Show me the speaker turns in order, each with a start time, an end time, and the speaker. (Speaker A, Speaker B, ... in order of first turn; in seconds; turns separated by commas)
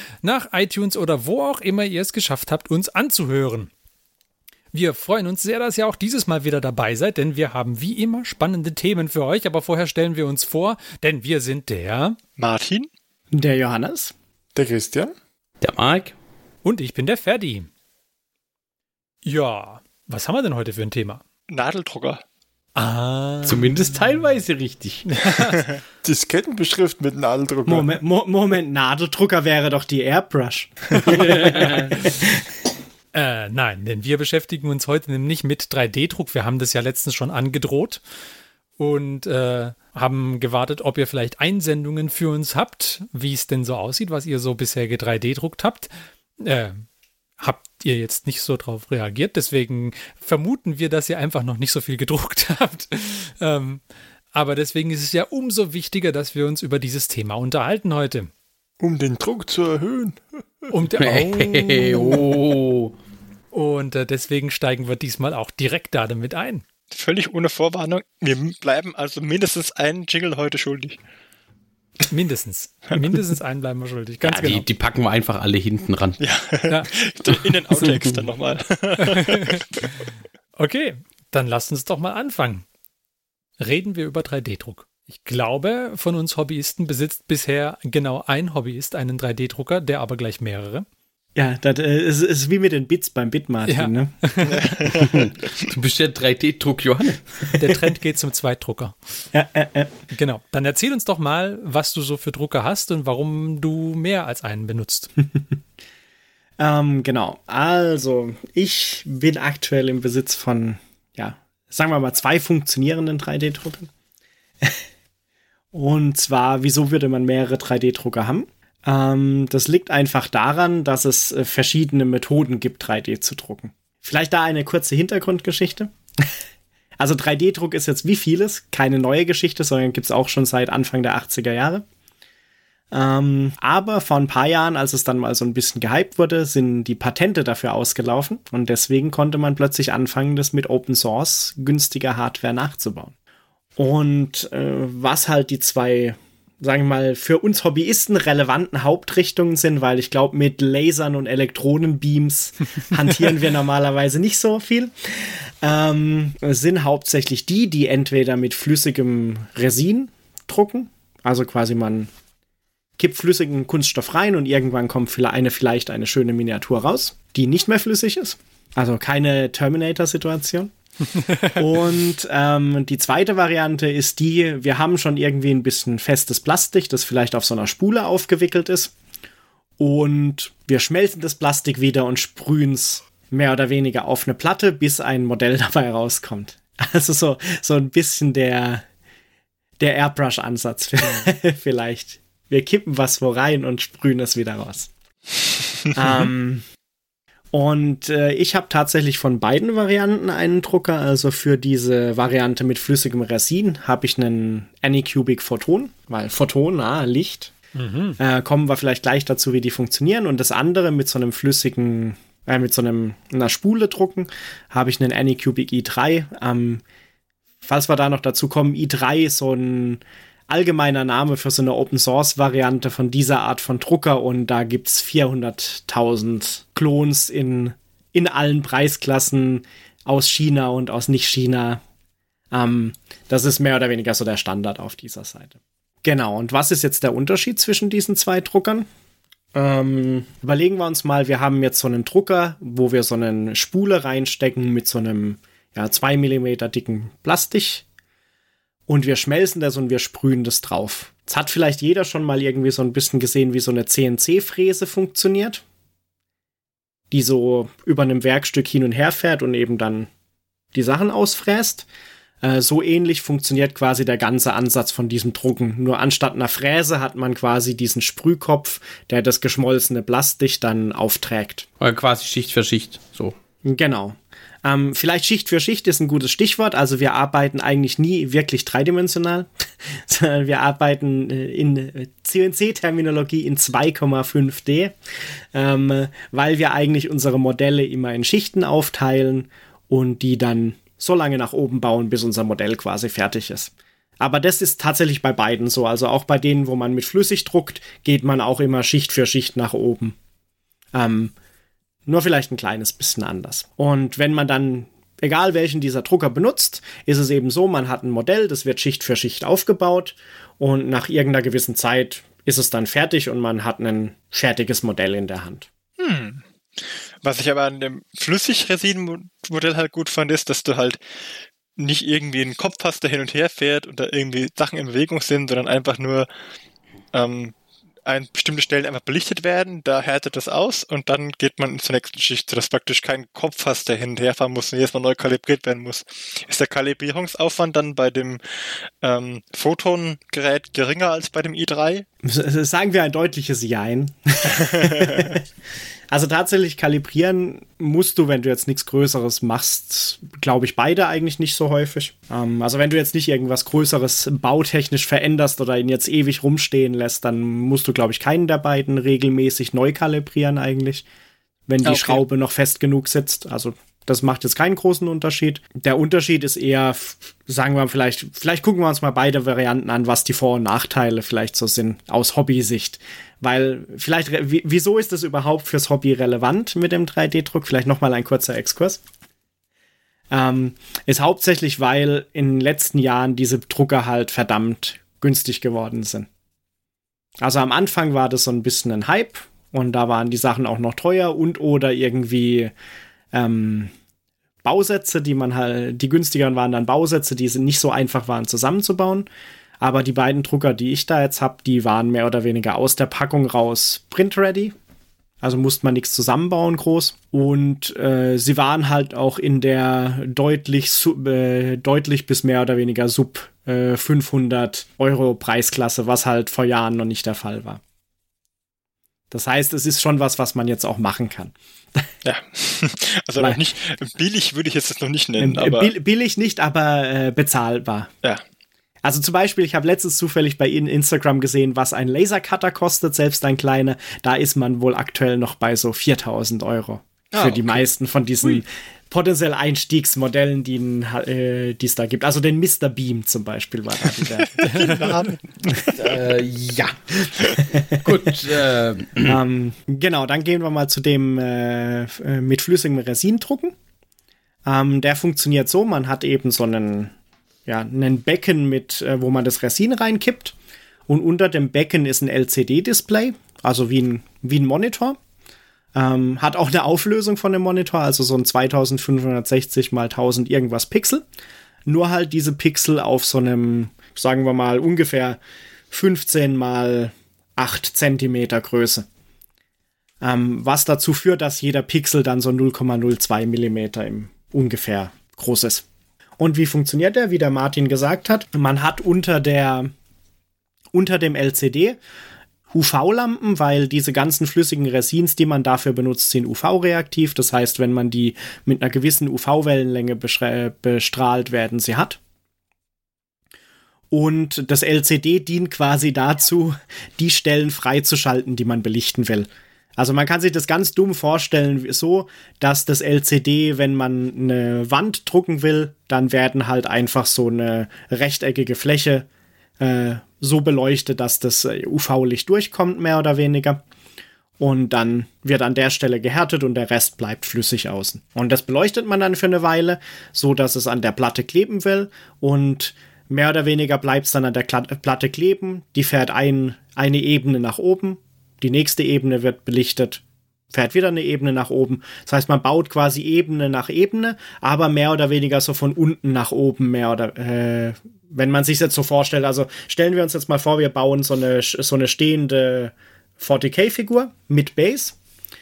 Speaker A: 0.2-3.7, Speaker A: 4.7-12.2, Speaker B: 12.4-12.9, Speaker C: 13.3-14.1, Speaker D: 14.5-15.1, Speaker E: 15.6-16.1, Speaker A: 16.6-17.7, Speaker A: 19.2-21.2, Speaker B: 21.5-22.2, Speaker A: 22.8-23.7, Speaker E: 23.4-25.0, Speaker A: 25.1-25.7, Speaker D: 26.0-27.9, Speaker C: 27.6-32.4, Speaker E: 31.0-32.1, Speaker A: 33.1-38.0, Speaker A: 38.8-46.8, Speaker A: 47.4-53.8, Speaker A: 54.3-58.3, Speaker D: 58.8-60.7, Speaker A: 60.7-62.4, Speaker E: 61.0-62.9, Speaker A: 63.5-66.6, Speaker B: 66.9-71.0, Speaker A: 72.1-74.6, Speaker E: 74.2-76.2, Speaker B: 76.2-79.8, Speaker E: 77.8-78.1, Speaker A: 79.0-79.9, Speaker A: 80.6-82.6, Speaker A: 83.6-90.8, Speaker C: 91.3-94.1, Speaker A: 93.7-94.9, Speaker B: 94.5-95.2, Speaker E: 95.0-97.3, Speaker A: 97.5-99.0, Speaker C: 99.3-99.9, Speaker A: 100.1-105.1, Speaker C: 106.6-113.9, Speaker C: 115.7-126.3, Speaker C: 127.0-131.8, Speaker C: 132.9-143.1, Speaker C: 143.8-162.1, Speaker C: 163.0-170.7, Speaker C: 171.5-178.9, Speaker C: 179.8-188.8, Speaker C: 189.8-194.9, Speaker C: 195.9-196.6, Speaker C: 197.5-207.5, Speaker A: 207.7-208.2, Speaker C: 208.2-216.8, Speaker C: 217.6-231.8, Speaker C: 232.5-238.9, Speaker C: 239.5-247.8, Speaker C: 248.9-255.6, Speaker C: 257.1-260.1, Speaker C: 260.7-261.9, Speaker C: 262.4-271.6, Speaker E: 271.8-273.3, Speaker C: 273.6-284.9, Speaker C: 285.5-300.1, Speaker C: 300.9-301.3, Speaker C: 302.1-315.7, Speaker B: 316.0-316.4, Speaker B: 317.2-321.0, Speaker B: 321.8-326.3, Speaker B: 327.1-327.5, Speaker B: 328.1-342.1, Speaker C: 342.2-345.4, Speaker B: 344.5-345.3, Speaker C: 346.1-361.0, Speaker C: 361.7-379.0, Speaker B: 361.8-362.2, Speaker C: 380.3-386.3, Speaker C: 387.4-392.7, Speaker C: 393.3-393.9, Speaker C: 394.6-399.3, Speaker C: 399.8-404.7, Speaker C: 405.4-417.8, Speaker C: 419.3-422.1, Speaker B: 422.2-425.9, Speaker C: 425.4-428.1, Speaker C: 429.0-445.0, Speaker B: 437.3-437.8, Speaker B: 444.4-445.8, Speaker A: 444.6-445.1, Speaker C: 445.7-446.1, Speaker E: 445.8-449.4, Speaker C: 447.2-448.3, Speaker C: 449.2-453.7, Speaker C: 454.6-457.1, Speaker C: 457.6-460.5, Speaker C: 461.1-465.2, Speaker C: 465.9-471.2, Speaker C: 471.9-475.4, Speaker C: 475.9-479.1, Speaker C: 480.2-485.8, Speaker C: 486.4-489.9, Speaker C: 490.9-492.0, Speaker C: 492.7-502.2, Speaker C: 504.1-519.3, Speaker C: 519.8-523.8, Speaker C: 524.6-555.1